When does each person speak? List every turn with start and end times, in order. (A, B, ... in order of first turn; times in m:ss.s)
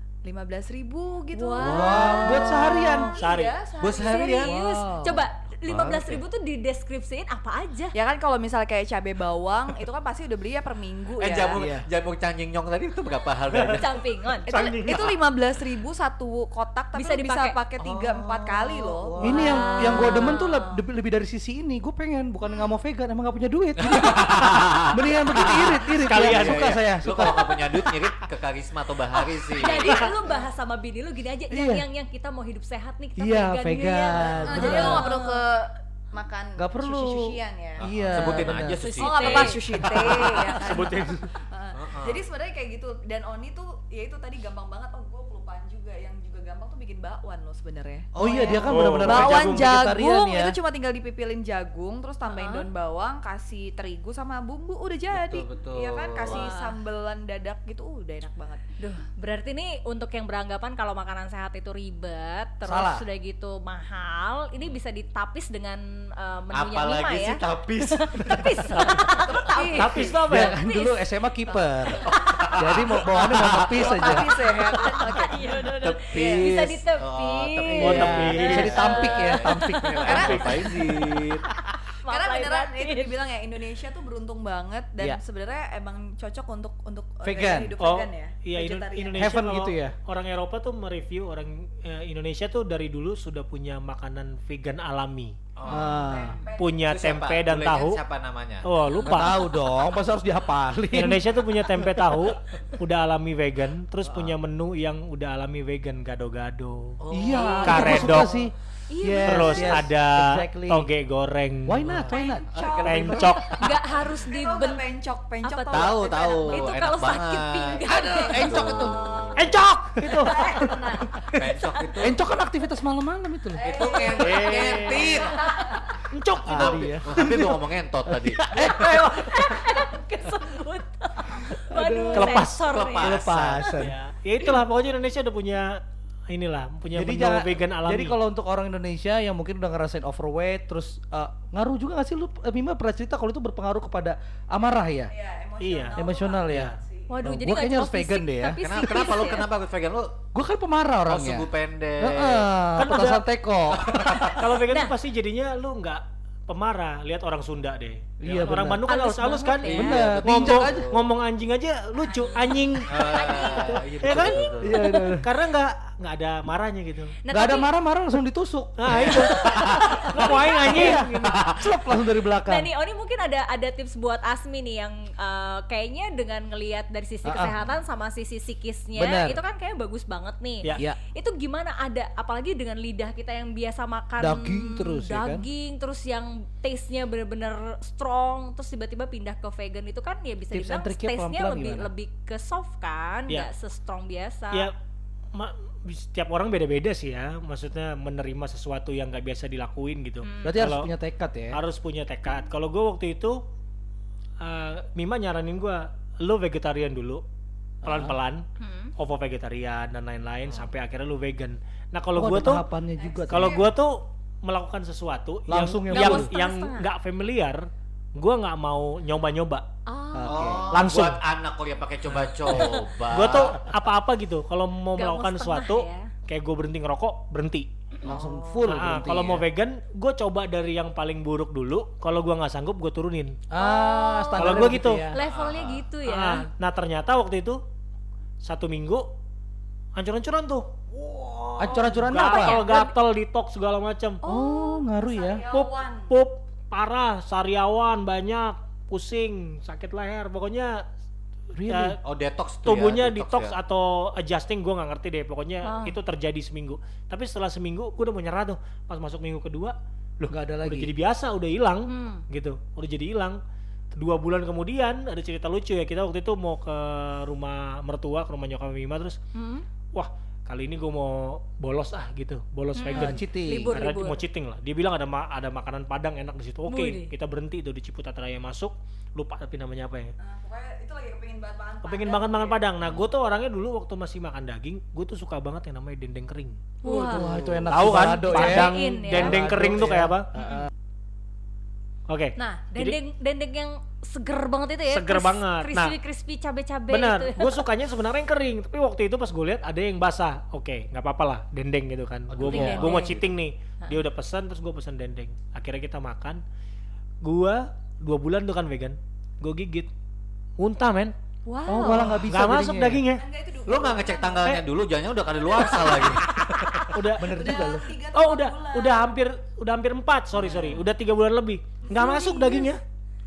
0:00.2-0:04.5 A
0:01.3-0:02.5 B
0:01.6-0:03.1 C
0:01.6-0:03.1 D
0:03.2-0:03.5 E
0:03.8-0:04.5 C
0:04.0-0:07.9 B
0:04.4-0:05.2 D
0:05.7-0:06.2 C
0:07.9-0:11.6 A
0:11.2-0:14.0 C
0:11.5-0:11.8 D
0:13.5-0:13.8 E
0:13.8-0:14.5 B
0:14.4-0:20.4 A
0:14.5-0:15.1 E
0:14.9-0:15.2 C
0:17.0-0:17.6 B
0:17.8-0:20.2 C
0:19.2-0:27.6 D
0:19.2-0:20.7 B
0:23.8-0:30.1 C
0:25.8-0:26.8 E
0:29.5-0:35.4 B
0:29.9-0:30.4 A
0:31.5-0:31.8 D
0:33.2-0:35.1 D
0:34.2-0:34.8 C
0:34.5-0:58.6 A
0:36.6-0:38.8 D
0:37.8-0:40.6 C
0:38.8-0:39.6 B
0:40.5-0:41.3 E
0:41.7-0:42.2 C
0:48.2-0:50.6 D
0:48.2-0:48.6 C
0:48.6-0:49.8 E
0:52.3-0:52.6 B
0:55.1-0:56.5 C
0:56.2-0:56.7 B
0:58.8-1:11.0 B
1:02.6-1:03.0 D
1:06.5-1:09.3 C
1:08.2-1:08.4 D
1:09.1-1:10.2 A
1:09.7-1:10.6 E
1:10.3-1:15.0 D
1:12.1-1:14.2 C
1:13.7-1:15.4 A
1:14.7-1:20.1 B
1:15.8-1:21.4 C
1:16.1-1:16.4 A
1:17.8-1:20.9 D
1:17.8-1:18.8 E
1:20.0-1:21.2 A
1:20.1-1:20.6 E
1:22.0-1:23.1 B
1:22.1-1:29.3 A
1:27.2-1:27.7 D
1:27.8-1:35.4 E
1:29.2-1:29.9 D
1:35.6-1:36.1 C
1:35.7-1:36.4 D
1:35.7-1:36.8 A
1:36.6-1:38.0 E
1:36.8-1:38.7 C
1:38.6-1:39.4 E
1:38.8-1:39.6 B
1:39.0-1:42.1 D
1:40.9-1:47.0 E
1:47.0-1:48.2 C
1:47.1-1:50.9 D
1:47.3-1:48.3 B
1:47.6-1:48.3 E
1:48.9-1:49.8 B
1:49.2-1:51.9 E
1:51.6-1:53.4 D
1:51.8-1:53.2 C
1:52.1-1:56.8 A
1:52.8-1:53.6 E
1:53.5-1:54.8 B
1:55.4-1:58.6 B
1:55.7-1:59.5 C
1:57.8-1:59.6 A
1:57.9-1:59.0 D
1:59.4-2:00.3 E
2:00.0-2:01.5 D
2:00.2-2:01.3 A
2:00.2-2:01.9 B
2:01.3-2:02.2 C
2:02.0-2:03.9 D
2:03.5-2:06.0 A
2:03.6-2:05.4 C
2:04.2-2:05.1 E
2:04.9-2:05.8 B
2:06.1-2:06.9 E
2:06.4-2:09.8 D
2:06.5-2:08.8 C
2:08.6-2:13.2 B
2:11.7-2:13.9 D
2:12.1-2:12.6 E
2:12.5-2:13.8 C
2:13.7-2:18.2 E
2:16.9-2:25.1 D
2:25.1-2:27.2 A
2:25.6-2:26.8 E
2:26.0-2:28.9 D
2:27.1-2:29.5 B
2:28.6-2:30.2 C
2:30.3-2:34.3 D
2:31.1-2:32.5 C
2:32.8-2:33.2 E
2:33.7-2:34.4 C
2:34.2-2:47.1 E
2:34.7-2:34.9 B
2:38.2-2:38.8 D
2:38.3-2:38.6 C
2:38.8-2:40.0 B
2:39.6-2:41.1 C
2:39.7-2:40.9 D
2:42.0-2:45.2 B
2:42.9-2:44.8 C
2:44.6-2:45.3 D
2:47.2-2:47.7 B
2:47.3-2:49.4 D
2:48.8-2:51.0 E
2:48.9-2:50.1 C
2:49.1-2:51.4 B
2:50.7-2:52.7 D
2:51.2-2:51.8 C
2:52.4-3:14.7 B
2:57.2-2:57.5 D
2:59.0-2:59.4 D
3:04.2-3:05.4 D
3:10.5-3:11.9 D
3:15.3-3:20.9 E
3:20.2-3:20.6 B
3:20.4-3:21.6 D
3:21.5-3:23.4 E
3:24.4-3:27.2 E
3:27.8-3:28.1 D
3:27.8-3:28.4 E
3:28.6-3:28.9 B
3:29.0-3:32.6 E
3:32.1-3:33.7 D
3:33.0-3:33.7 A
3:33.3-3:39.6 E
3:35.5-3:36.3 D
3:35.9-3:36.9 B
3:39.8-3:40.6 B
3:40.1-3:40.7 D
3:40.2-3:43.7 C
3:40.7-3:41.2 E
3:42.2-3:47.7 E
3:44.9-3:46.1 B
3:48.0-3:49.0 C
3:48.0-3:49.4 D
3:48.6-3:53.4 E
3:53.5-3:55.2 D
3:53.6-3:56.4 B
3:54.4-3:55.0 E
3:55.2-3:55.9 C
3:56.0-3:57.6 E
3:58.4-3:59.1 E
3:59.9-4:00.8 E
4:00.9-4:01.6 C
4:01.4-4:04.2 E
4:01.6-4:02.6 D
4:02.1-4:02.9 B
4:04.2-4:05.4 D
4:04.3-4:06.1 A
4:05.5-4:10.8 E
4:11.5-4:12.0 D
4:11.7-4:12.0 E
4:12.0-4:13.5 C
4:12.6-4:23.4 E
4:15.6-4:16.0 B
4:20.3-4:20.9 D
4:21.8-4:22.2 B
4:23.9-4:29.2 E
4:29.3-4:29.6 B
4:29.9-4:40.1 E
4:32.7-4:34.2 B
4:32.9-4:33.7 D
4:36.7-4:37.1 B
4:40.2-4:42.6 A
4:41.8-4:46.6 E
4:42.8-4:43.1 C
4:46.8-4:47.3 B
4:46.8-4:50.7 D
4:47.2-4:47.7 C
4:47.7-4:50.3 E
4:48.3-4:49.4 B
4:50.4-4:50.6 B
4:52.1-4:53.0 E
4:52.4-4:57.6 B
4:54.9-4:55.9 E
4:56.9-5:06.4 E
5:02.3-5:03.3 C
5:02.5-5:03.1 B
5:02.5-5:03.0 D
5:07.2-5:09.9 E
5:10.6-5:11.1 E
5:11.4-5:12.3 B
5:11.7-5:13.1 D
5:12.3-5:13.2 E
5:13.2-5:14.6 A
5:13.6-5:17.0 C
5:15.4-5:16.2 A
5:16.9-5:17.6 E
5:17.2-5:17.9 D
5:17.3-5:19.1 A
5:18.1-5:22.8 E
5:20.3-5:20.9 C
5:21.9-5:22.7 B